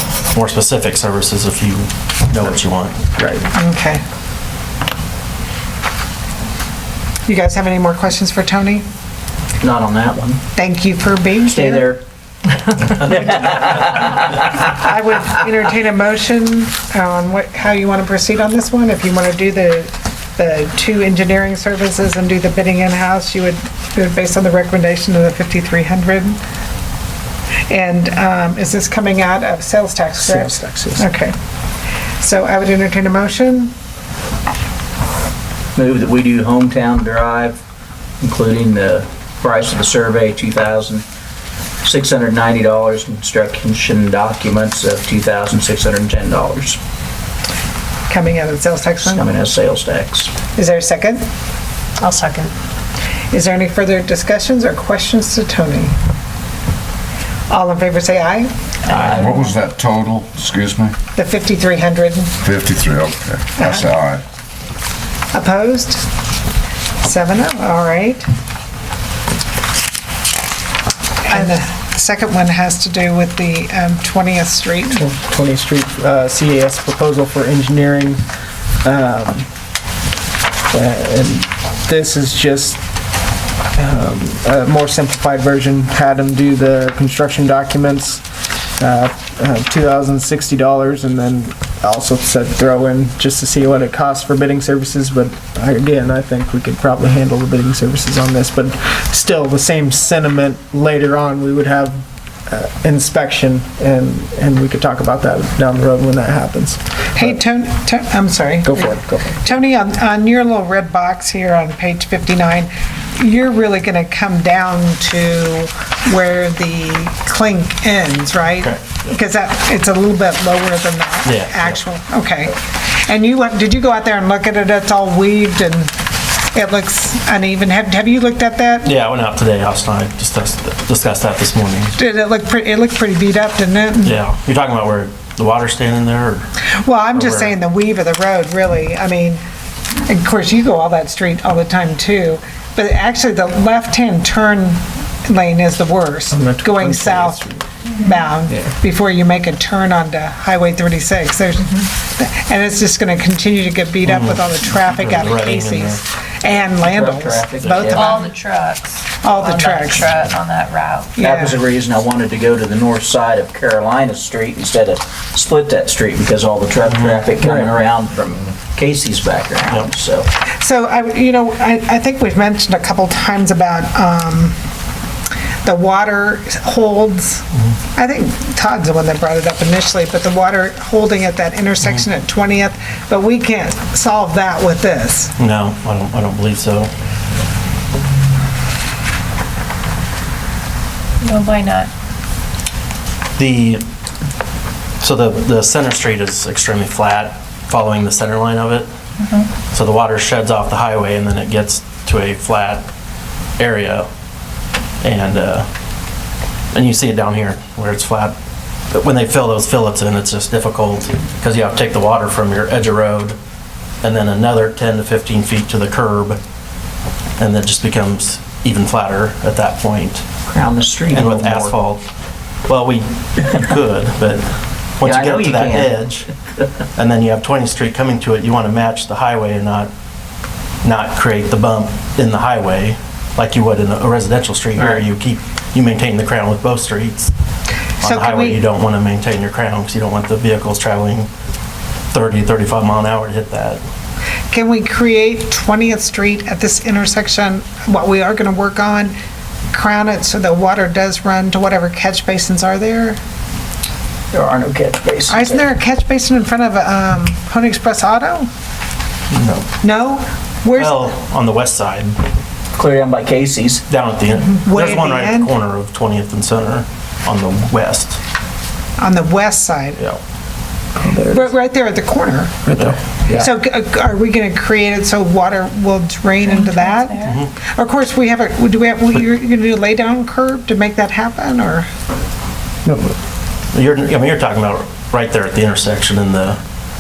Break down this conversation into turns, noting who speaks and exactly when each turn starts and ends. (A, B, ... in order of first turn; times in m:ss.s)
0:00.3-0:03.0 A
0:03.2-0:03.5 B
0:03.5-0:04.0 C
0:07.3-0:08.8 C
0:09.6-0:10.4 D
0:10.6-0:11.9 C
0:11.4-0:12.0 D
0:12.9-0:14.5 D
0:14.4-0:26.4 C
0:27.7-0:31.4 C
0:30.2-0:31.1 B
0:32.2-0:33.7 C
0:35.8-0:37.6 D
0:38.2-0:41.0 D
0:41.8-0:46.8 D
0:48.1-0:49.3 C
0:49.0-0:50.3 D
0:50.6-0:51.2 C
0:52.0-0:52.5 E
0:53.3-0:55.9 C
0:57.5-0:58.5 C
0:58.9-0:59.5 D
0:59.2-1:00.9 F
1:01.2-1:02.4 C
1:02.4-1:04.2 F
1:05.3-1:06.0 C
1:07.0-1:08.3 C
1:11.2-1:15.0 C
1:15.0-1:18.2 B
1:18.8-1:19.5 B
1:20.7-1:22.8 B
1:23.8-1:28.2 B
1:28.8-1:47.4 B
1:47.2-2:05.9 C
1:48.6-1:49.4 B
1:58.6-1:59.2 A
2:01.3-2:01.8 A
2:06.5-2:08.9 C
2:08.8-2:12.0 A
2:12.0-2:14.2 C
2:14.0-2:16.5 A
2:16.8-2:19.4 C
2:17.1-2:17.6 A
2:20.1-2:27.5 C
2:26.3-2:27.7 B
2:28.0-2:38.3 C
2:34.0-2:36.0 A
2:36.8-2:38.2 D
2:37.9-2:41.2 E
2:39.2-2:40.2 C
2:41.2-2:41.6 C
2:41.2-2:50.3 D
2:47.0-2:47.2 A
2:47.4-2:47.7 B
2:50.6-2:54.6 C
2:55.6-3:05.3 C
3:05.4-3:06.9 A
3:11.2-3:11.9 E
3:13.4-3:13.8 A
3:15.0-3:18.9 A
3:19.2-3:19.5 E
3:19.6-3:22.9 A
3:23.6-3:24.1 A
3:25.0-3:25.7 A
3:26.7-3:28.3 A
3:28.9-3:33.4 A
3:34.0-3:36.4 A
3:37.4-3:40.3 A
3:40.5-3:41.8 D
3:41.1-3:42.0 A
3:42.7-3:44.5 A
3:45.0-3:46.3 A
3:45.0-3:46.2 D
3:47.0-3:49.9 A
3:50.8-3:57.3 A
3:54.8-3:55.0 D
3:58.0-4:01.3 A
3:58.0-3:58.6 C
4:02.1-4:03.8 A
4:04.5-4:09.2 C
4:09.7-4:13.2 C
4:14.3-4:15.7 D
4:15.3-4:18.5 C
4:19.3-4:19.7 A
4:19.8-4:21.2 C
4:20.8-4:22.2 A
4:22.8-4:23.8 D
4:23.9-4:28.2 A
4:24.5-4:25.5 C
4:29.0-4:30.0 C
4:31.0-4:31.5 B
4:31.3-4:32.7 C
4:32.7-4:33.4 B
4:33.3-4:41.9 C
4:36.4-4:37.4 E
4:37.2-4:37.5 A
4:42.8-4:43.2 B
4:43.7-4:46.6 A